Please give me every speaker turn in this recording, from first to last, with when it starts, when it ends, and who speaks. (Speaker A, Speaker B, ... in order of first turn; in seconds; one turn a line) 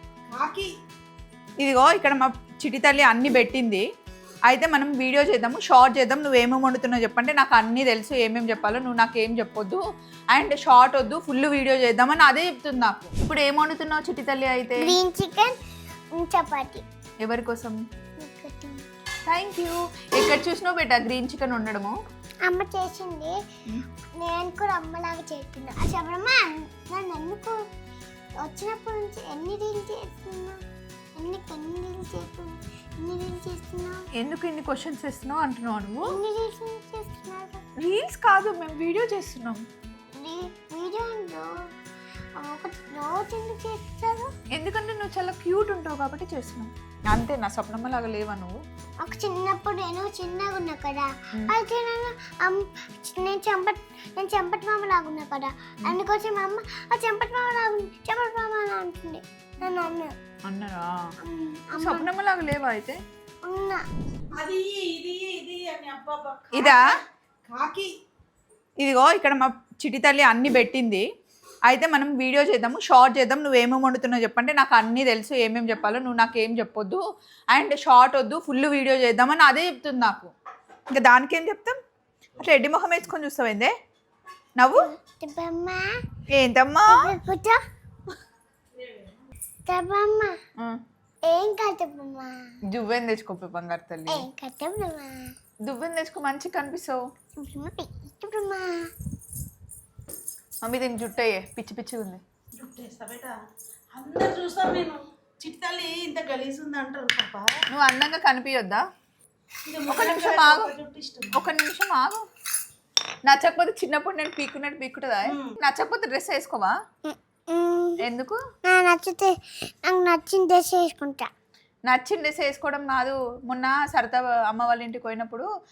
Speaker A: 0.3-0.7
Speaker B: 1.6-3.8
Speaker B: 4.5-15.0
Speaker C: 14.8-15.6
Speaker C: 16.1-16.8
Speaker B: 17.2-17.8
Speaker C: 18.2-18.8
Speaker B: 19.3-21.9
Speaker C: 22.5-23.4
Speaker C: 24.2-27.6
Speaker C: 28.4-30.6
Speaker C: 31.2-34.0
Speaker B: 34.1-36.2
Speaker C: 36.0-37.6
Speaker B: 37.8-39.6
Speaker C: 40.2-41.5
Speaker C: 42.4-44.3
Speaker B: 44.5-48.6
Speaker C: 49.0-60.1
Speaker B: 60.5-61.0
Speaker C: 61.2-62.1
Speaker B: 61.7-63.0
Speaker C: 63.5-63.8
Speaker A: 64.3-66.8
Speaker B: 66.5-66.8
Speaker A: 67.5-67.9
Speaker B: 68.8-71.0
Speaker B: 71.7-77.0
Speaker B: 77.5-80.3
Speaker B: 80.9-81.8
Speaker B: 82.4-83.7
Speaker B: 84.6-84.9
Speaker C: 84.8-85.9
Speaker B: 86.3-87.1
Speaker C: 86.9-87.6
Speaker C: 89.7-90.3
Speaker C: 91.3-92.3
Speaker B: 92.7-94.3
Speaker C: 94.1-95.2
Speaker B: 95.6-97.0
Speaker C: 97.4-98.8
Speaker B: 100.6-102.2
Speaker A: 102.5-103.3
Speaker A: 103.9-107.5
Speaker B: 107.7-108.8
Speaker A: 109.7-111.4
Speaker B: 109.9-110.7
Speaker B: 111.3-112.2
Speaker B: 113.2-116.7
Speaker A: 115.3-115.5
Speaker C: 117.0-118.0
Speaker B: 118.0-118.4
Speaker C: 118.7-119.3
Speaker C: 119.8-121.3
Speaker B: 121.9-125.5